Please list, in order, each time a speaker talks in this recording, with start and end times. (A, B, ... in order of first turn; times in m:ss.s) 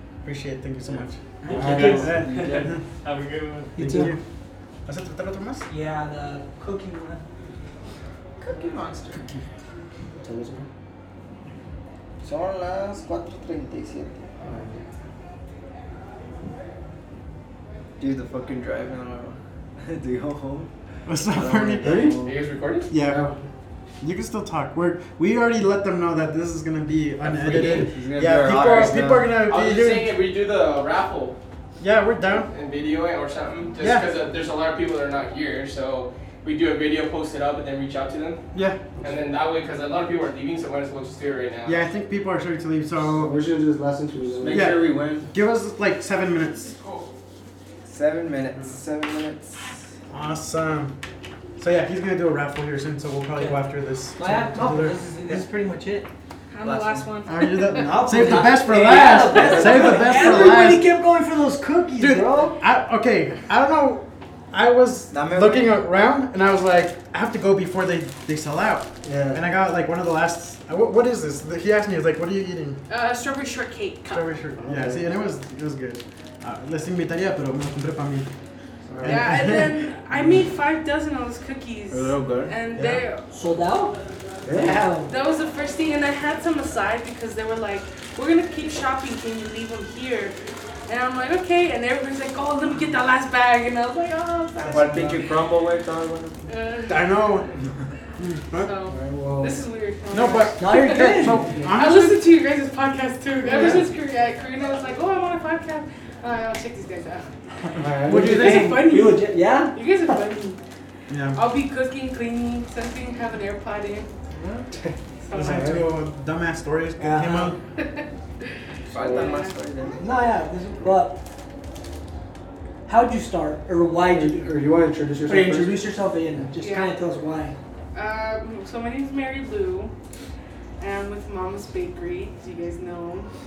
0:00.2-0:02.8 A
0:00.8-0:04.0 B
0:01.4-0:02.2 C
0:01.5-0:02.7 D
0:03.7-0:04.2 C
0:03.8-0:04.2 A
0:04.8-0:05.6 A
0:05.7-0:07.2 C
0:08.4-0:09.3 E
0:10.2-0:10.7 D
0:12.2-0:14.3 E
0:14.4-0:14.8 D
0:18.0-0:20.7 E
0:21.1-0:22.2 A
0:21.3-0:22.3 E
0:21.8-0:22.3 D
0:22.2-0:22.9 F
0:22.9-0:23.2 A
0:22.9-0:23.4 D
0:24.0-0:30.1 A
0:27.2-0:29.4 E
0:27.5-0:27.8 F
0:29.4-0:31.4 F
0:31.8-0:32.5 A
0:32.3-0:38.4 F
0:33.8-0:34.1 A
0:38.5-0:38.8 A
0:39.0-0:41.8 F
0:41.6-0:43.4 A
0:43.0-0:44.7 D
0:44.3-0:45.3 E
0:44.5-0:46.8 A
0:46.6-0:47.1 F
0:47.8-0:49.8 E
0:50.1-0:51.0 A
0:51.6-0:55.0 A
0:53.3-0:53.6 C
0:54.2-0:56.1 C
0:56.5-0:57.9 G
0:56.6-0:57.2 E
0:57.2-1:00.9 A
0:57.8-1:02.6 C
0:59.6-1:00.2 D
1:02.0-1:12.8 A
1:05.1-1:05.8 E
1:09.0-1:09.4 D
1:12.9-1:14.3 G
1:14.1-1:18.3 A
1:14.6-1:15.0 D
1:18.9-1:19.3 D
1:19.0-1:19.8 A
1:19.0-1:23.3 G
1:21.9-1:22.5 E
1:22.8-1:23.0 A
1:23.3-1:24.0 C
1:24.5-1:24.8 E
1:24.6-1:25.1 C
1:25.1-1:30.3 G
1:30.9-1:34.8 G
1:34.6-1:35.0 A
1:34.7-1:36.4 E
1:34.8-1:35.2 C
1:36.5-1:37.0 G
1:36.9-1:37.5 A
1:38.2-1:38.7 A
1:38.6-1:41.2 G
1:38.9-1:39.6 D
1:40.1-1:42.3 A
1:40.6-1:41.6 C
1:41.7-1:47.3 G
1:47.8-1:48.4 D
1:48.0-1:50.2 C
1:48.0-1:48.8 A
1:48.4-1:50.6 G
1:51.1-1:51.4 A
1:51.3-1:54.1 G
1:54.4-1:55.8 D
1:55.2-1:55.6 G
1:55.3-1:57.6 A
1:55.4-1:55.8 C
1:57.0-1:57.5 C
1:58.9-2:00.3 E
1:59.0-1:59.4 D
1:59.0-1:59.5 G
1:59.9-2:01.2 C
2:02.9-2:04.6 C
2:04.0-2:06.5 D
2:05.2-2:07.6 C
2:06.6-2:07.0 G
2:07.9-2:09.9 G
2:10.8-2:13.3 G